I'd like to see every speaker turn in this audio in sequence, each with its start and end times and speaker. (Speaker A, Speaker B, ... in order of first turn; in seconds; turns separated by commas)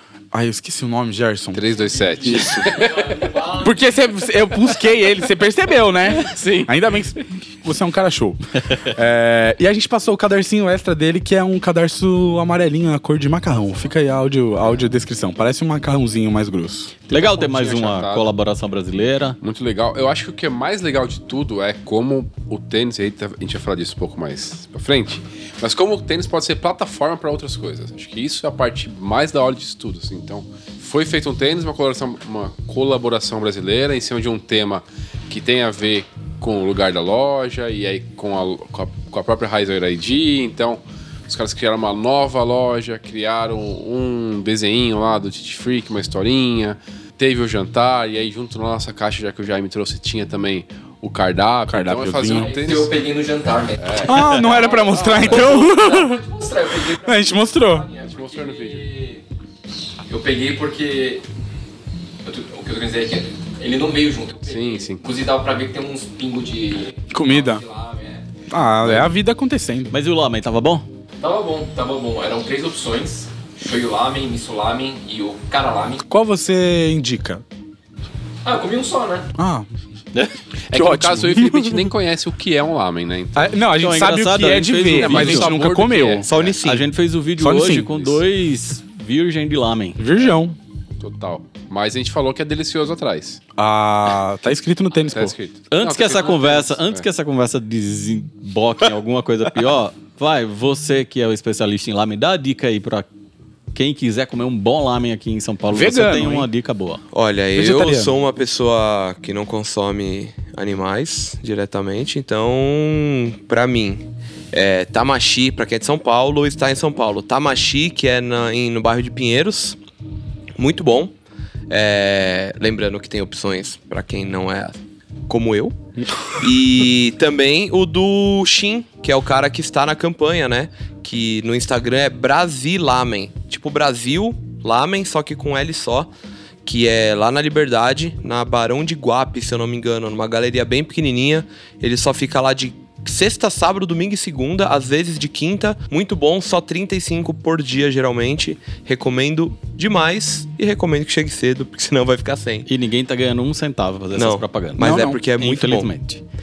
Speaker A: 0.3-1.6, Speaker B: 1.5-3.4, Speaker C: 1.8-3.8, Speaker A: 2.2-2.7, Speaker A: 3.6-17.1, Speaker B: 6.1-6.7, Speaker B: 17.1-18.3, Speaker D: 17.1-19.4, Speaker B: 19.4-53.0, Speaker A: 51.7-52.6, Speaker C: 52.3-59.2, Speaker B: 53.8-55.6, Speaker A: 54.0-56.2, Speaker A: 56.9-57.9, Speaker B: 58.0-58.9, Speaker C: 60.1-61.2, Speaker C: 62.2-68.2, Speaker B: 64.5-65.0, Speaker A: 67.1-67.6, Speaker A: 68.5-69.9, Speaker D: 69.9-70.9, Speaker C: 71.2-76.0, Speaker A: 76.1-77.4, Speaker C: 78.4-79.3, Speaker A: 79.4-79.7, Speaker B: 80.7-83.6, Speaker A: 80.7-81.9, Speaker A: 83.4-86.3, Speaker D: 83.8-85.6, Speaker B: 85.0-86.6, Speaker E: 86.2-86.9, Speaker D: 86.6-90.0, Speaker A: 87.4-87.9, Speaker B: 87.9-88.2, Speaker A: 90.0-90.6, Speaker B: 91.0-93.4, Speaker A: 93.6-95.3, Speaker B: 95.1-97.0, Speaker D: 95.7-103.1, Speaker D: 103.7-107.0, Speaker A: 105.7-106.5, Speaker E: 107.1-119.8, Speaker A: 107.5-108.1, Speaker E: 120.6-121.1, Speaker E: 121.7-125.8, Speaker E: 126.4-136.1, Speaker E: 136.6-152.7, Speaker D: 152.7-156.2, Speaker E: 154.1-155.9, Speaker A: 154.8-155.2